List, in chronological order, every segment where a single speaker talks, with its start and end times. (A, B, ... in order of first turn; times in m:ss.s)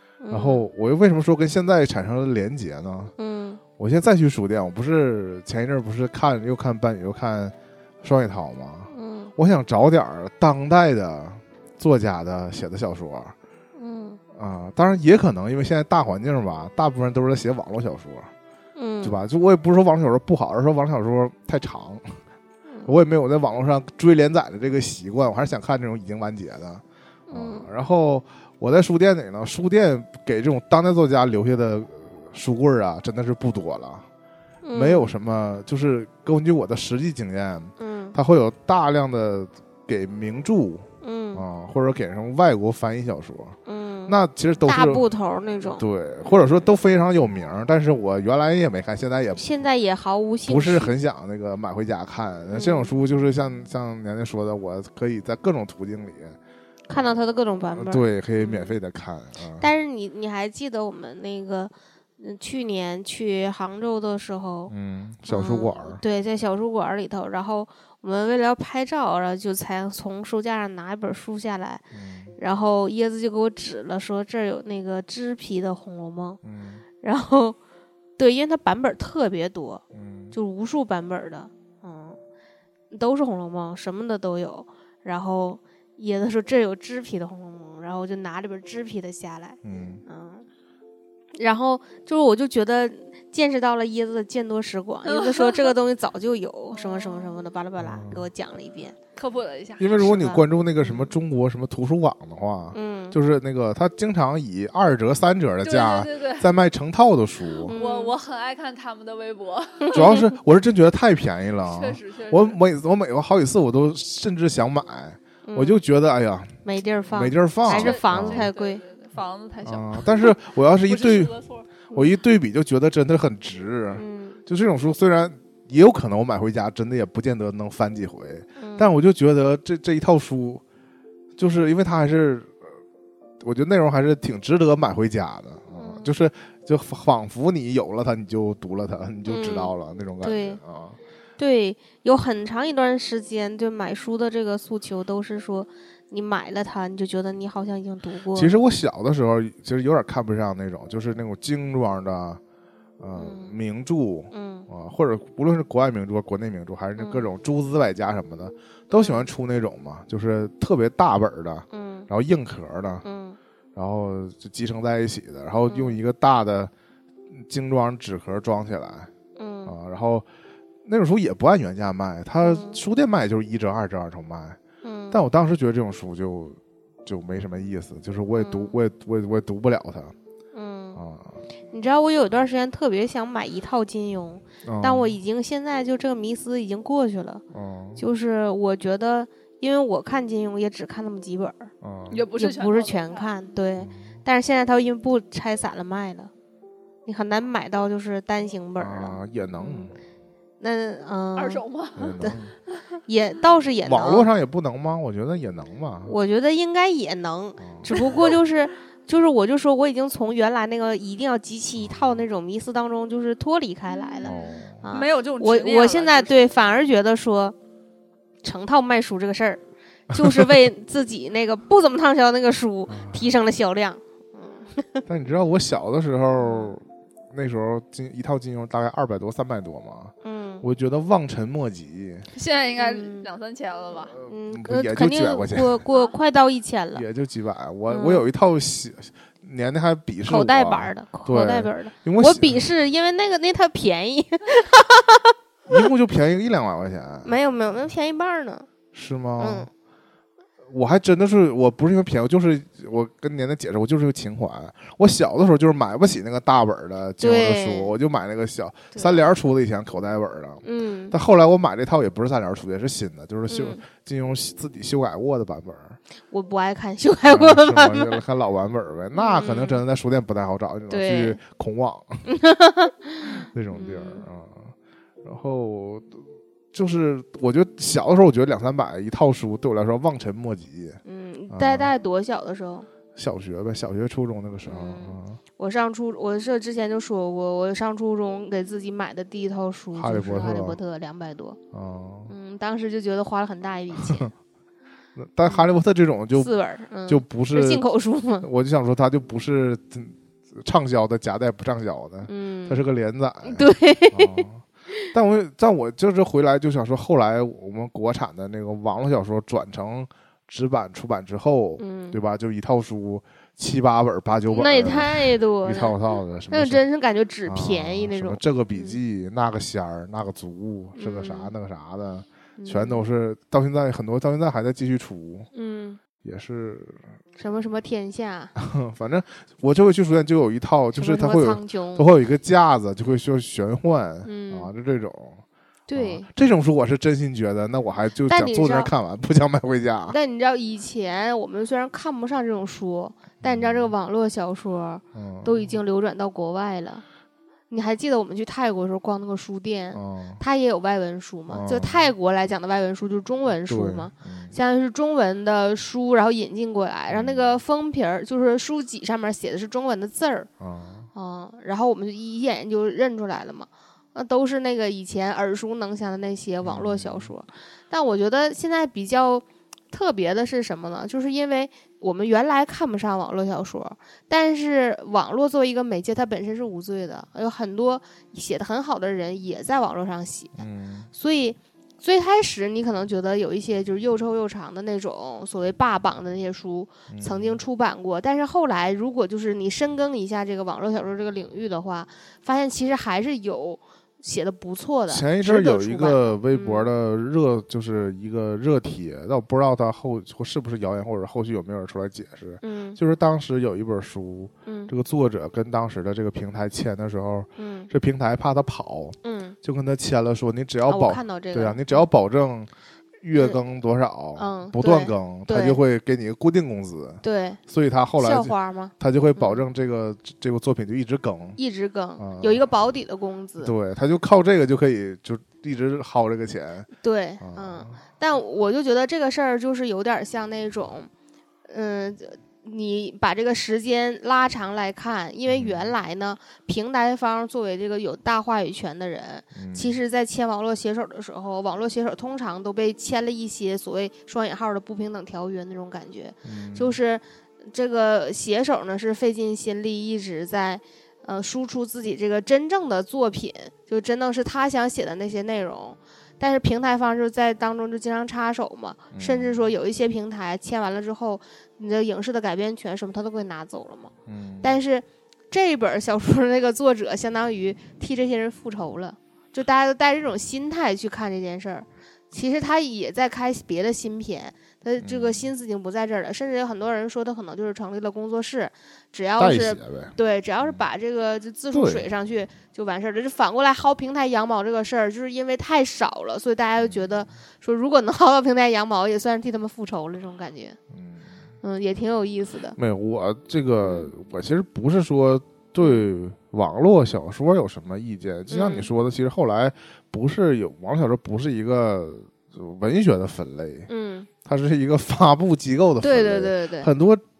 0:00.2-0:00.6 A
0:00.3-0:03.1 B
0:03.2-0:03.6 A
0:03.8-0:13.3 B
0:08.9-0:09.3 A
0:13.7-0:14.2 A
0:14.3-0:18.3 B
0:18.8-0:19.2 A
0:19.0-0:22.2 B
0:22.8-0:34.0 B
0:27.3-0:27.7 A
0:34.6-0:35.1 A
0:34.7-0:43.6 B
0:37.8-0:38.2 A
0:41.0-0:41.4 A
0:43.6-0:45.8 A
0:44.1-0:45.0 B
0:45.8-0:49.4 B
0:49.4-0:50.9 A
0:50.5-0:56.4 B
0:52.5-0:53.0 A
0:56.9-0:58.7 A
0:57.8-0:59.6 B
0:59.6-1:04.7 A
1:04.7-1:06.0 B
1:05.3-1:11.8 A
1:11.9-1:12.3 B
1:12.4-1:16.4 A
1:16.4-1:16.8 B
1:17.0-1:17.6 A
1:18.2-1:22.2 A
1:19.9-1:20.3 B
1:22.9-1:30.4 A
1:29.6-1:30.0 B
1:31.4-1:39.0 A
1:35.1-1:35.7 C
1:37.8-1:38.2 B
1:39.2-1:40.0 C
1:39.8-1:47.7 B
1:39.9-1:41.1 A
1:42.7-1:43.2 A
1:45.6-1:46.5 C
1:47.7-1:48.2 A
1:47.7-1:50.0 C
1:49.8-1:50.2 A
1:49.9-1:56.6 B
1:51.6-1:52.6 C
1:55.4-1:55.8 A
1:56.6-1:58.8 A
1:57.1-1:58.5 B
1:57.7-2:01.7 C
1:59.6-2:01.3 B
2:01.9-2:10.6 B
2:03.9-2:04.4 A
2:08.6-2:08.9 A
2:11.4-2:12.5 B
2:13.4-2:21.0 B
2:15.7-2:16.1 A
2:19.2-2:20.6 A
2:21.4-2:28.5 A
2:28.3-2:32.4 B
2:33.0-2:43.0 B
2:33.1-2:33.5 A
2:34.3-2:34.7 A
2:37.0-2:37.3 A
2:38.9-2:39.3 A
2:41.7-2:42.1 A
2:43.0-2:43.4 A
2:43.7-2:46.7 B
2:45.7-2:46.0 A
2:47.3-2:49.1 B
2:49.4-2:49.7 A
2:49.6-2:50.2 B
2:50.8-2:54.6 B
2:52.4-2:52.8 A
2:54.8-2:55.2 A
2:55.1-3:00.1 B
2:58.4-2:58.8 A
3:00.5-3:01.0 A
3:01.0-3:01.4 B
3:01.7-3:07.4 A
3:04.6-3:05.1 B
3:07.5-3:08.0 B
3:08.0-3:11.7 A
3:11.8-3:12.2 B
3:12.1-3:13.3 C
3:12.4-3:16.3 A
3:13.8-3:14.1 B
3:17.0-3:19.9 A
3:18.8-3:20.0 B
3:20.6-3:21.6 A
3:21.4-3:22.2 C
3:22.0-3:22.5 B
3:23.0-3:24.3 A
3:23.8-3:26.1 B
3:26.0-3:37.6 A
3:27.6-3:28.0 B
3:34.2-3:34.8 B
3:34.2-3:36.4 C
3:38.4-3:45.0 A
3:40.1-3:40.5 B
3:42.9-3:43.3 B
3:45.0-3:52.3 B
3:46.4-3:46.7 A
3:50.2-3:50.6 A
3:52.3-3:54.2 C
3:52.8-3:53.3 A
3:54.1-3:55.8 B
3:54.2-3:57.0 A
3:56.9-4:02.7 B
3:57.9-3:58.2 A
4:00.3-4:05.8 A
4:05.7-4:07.3 B
4:07.2-4:08.7 A
4:08.9-4:09.7 B
4:09.4-4:09.7 A
4:10.7-4:26.0 B
4:17.2-4:17.9 A
4:18.9-4:19.3 A
4:20.6-4:21.2 A
4:23.5-4:23.8 A
4:26.3-4:28.2 A
4:27.2-4:32.2 B
4:29.1-4:29.8 A
4:30.9-4:31.4 A
4:32.3-4:34.2 A
4:33.4-4:34.7 B
4:35.2-4:36.1 B
4:36.7-4:41.0 B
4:41.0-4:42.9 A
4:41.5-4:41.9 B
4:43.2-4:45.4 B
4:44.6-4:51.6 A
4:49.9-4:50.8 B
4:51.7-4:52.3 B
4:52.3-4:54.3 A
4:54.0-4:54.3 B
4:55.2-4:56.5 B
4:56.3-4:58.4 A
4:57.1-4:57.8 B
4:58.4-5:16.8 B
5:02.3-5:02.8 A
5:03.4-5:05.1 A
5:11.8-5:12.2 A
5:14.5-5:16.0 A
5:16.5-5:19.0 A
5:17.5-5:25.5 B
5:21.0-5:21.5 A
5:22.6-5:23.0 A
5:25.5-5:26.0 A
5:26.2-5:27.0 B
5:27.4-5:28.5 A
5:28.6-5:35.4 B
5:31.0-5:32.1 A
5:34.2-5:34.7 A
5:35.9-5:36.3 A
5:36.0-5:40.2 B
5:38.3-5:38.9 A
5:40.1-5:47.0 A
5:43.4-5:43.9 B
5:45.1-5:45.7 B
5:47.7-6:00.5 A
5:49.9-5:50.4 B
5:51.5-5:52.1 B
5:53.7-5:54.5 B
5:57.1-5:57.6 B
6:00.6-6:01.1 B
6:01.1-6:20.6 A
6:06.6-6:07.3 B
6:20.6-6:21.1 B
6:21.1-6:36.8 A
6:27.1-6:27.6 B
6:35.1-6:52.7 B
6:42.6-6:43.0 A
6:44.6-6:44.9 A
6:47.6-6:47.9 A
6:49.2-6:49.6 A
6:50.8-6:52.0 A
6:53.2-7:01.6 B
6:53.3-6:53.6 A
6:54.4-6:55.8 A
6:57.2-6:57.6 A
6:58.2-6:59.6 A
7:01.6-7:03.7 A
7:02.2-7:02.6 B
7:03.6-7:06.9 B
7:07.0-7:11.1 A
7:07.4-7:08.0 B
7:11.7-8:10.8 A
7:15.5-7:15.9 B
7:19.5-7:19.9 B
7:26.4-7:27.0 B
7:39.1-7:39.6 B
7:44.2-7:44.7 B
7:55.0-7:55.5 B
7:59.4-8:00.1 B
8:01.7-8:02.0 B
8:06.8-8:07.1 B
8:10.9-8:11.2 B
8:11.6-8:12.8 A
8:12.8-8:23.9 B
8:13.8-8:14.1 A
8:15.8-8:16.1 A
8:18.5-8:18.9 A
8:23.9-8:24.3 A
8:24.4-8:27.2 B
8:26.0-8:26.9 A